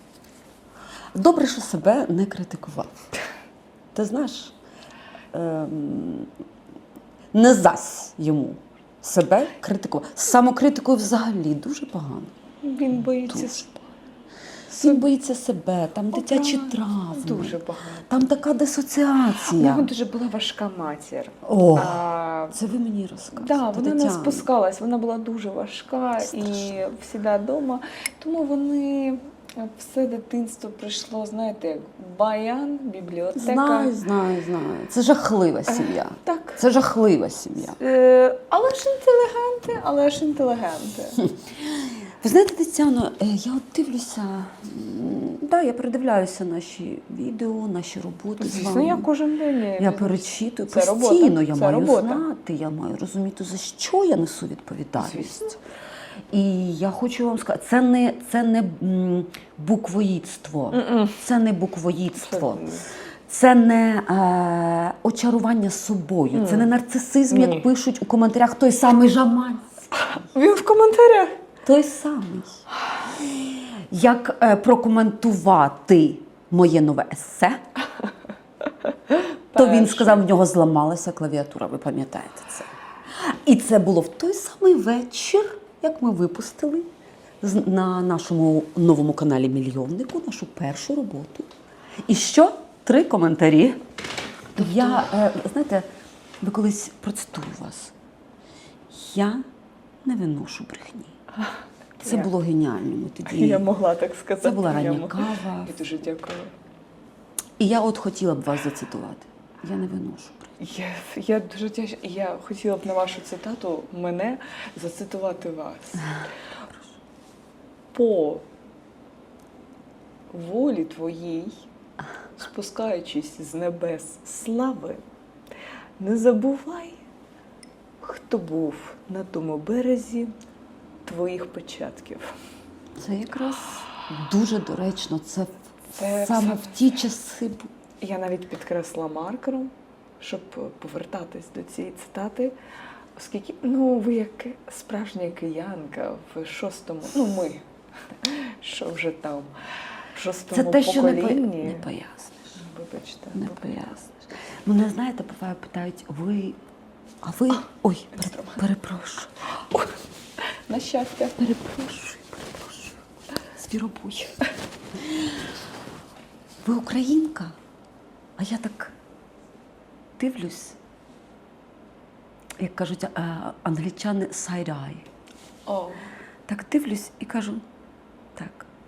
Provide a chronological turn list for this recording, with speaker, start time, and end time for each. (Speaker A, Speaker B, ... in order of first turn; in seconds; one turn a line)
Speaker A: 1.1-3.1
Speaker A: 3.9-4.5
Speaker A: 5.3-6.3
Speaker A: 7.3-12.3
Speaker B: 12.6-13.9
Speaker A: 13.3-13.6
Speaker A: 14.7-19.9
Speaker B: 14.7-15.1
Speaker B: 16.1-18.2
Speaker B: 19.4-22.6
Speaker A: 21.4-24.5
Speaker B: 23.4-33.9
Speaker A: 26.2-26.8
Speaker A: 33.4-37.8
Speaker B: 35.7-36.6
Speaker B: 37.6-41.2
Speaker A: 41.6-49.1
Speaker B: 48.4-52.3
Speaker A: 49.8-55.6
Speaker B: 55.1-55.4
Speaker A: 56.3-70.1
Speaker B: 60.7-61.2
Speaker B: 62.2-62.9
Speaker B: 66.3-66.7
Speaker B: 67.3-67.7
Speaker B: 70.1-71.4
Speaker A: 71.7-77.6
Speaker B: 79.1-80.3
Speaker A: 79.5-86.9
Speaker A: 87.4-91.5
Speaker A: 92.1-93.8
Speaker A: 94.5-95.9
Speaker B: 94.6-95.1
Speaker A: 96.4-97.9
Speaker A: 98.9-99.4
Speaker A: 100.0-101.2
Speaker B: 101.4-102.3
Speaker A: 102.0-103.7
Speaker B: 103.3-106.5
Speaker A: 104.4-105.8
Speaker A: 107.6-110.5
Speaker B: 110.6-116.2
Speaker B: 117.9-118.5
Speaker B: 120.3-121.7
Speaker B: 122.4-125.0
Speaker B: 126.0-127.0
Speaker B: 128.0-130.3
Speaker B: 131.1-132.3
Speaker A: 133.0-137.7
Speaker B: 135.9-136.8
Speaker B: 138.0-142.6
Speaker B: 143.2-147.7
Speaker B: 148.2-149.5
Speaker B: 150.1-151.9
Speaker A: 150.5-152.6
Speaker B: 152.6-154.0
Speaker A: 153.3-154.1
Speaker A: 154.7-156.6
Speaker A: 157.2-159.3
Speaker B: 158.2-158.7
Speaker B: 159.6-159.9
Speaker B: 160.5-161.4
Speaker A: 161.4-163.0
Speaker A: 163.5-164.4
Speaker A: 165.0-165.4
Speaker A: 166.6-167.6
Speaker A: 168.4-168.9
Speaker A: 170.2-170.8
Speaker A: 172.6-175.1
Speaker B: 175.7-176.1
Speaker A: 176.5-177.7
Speaker A: 178.4-178.7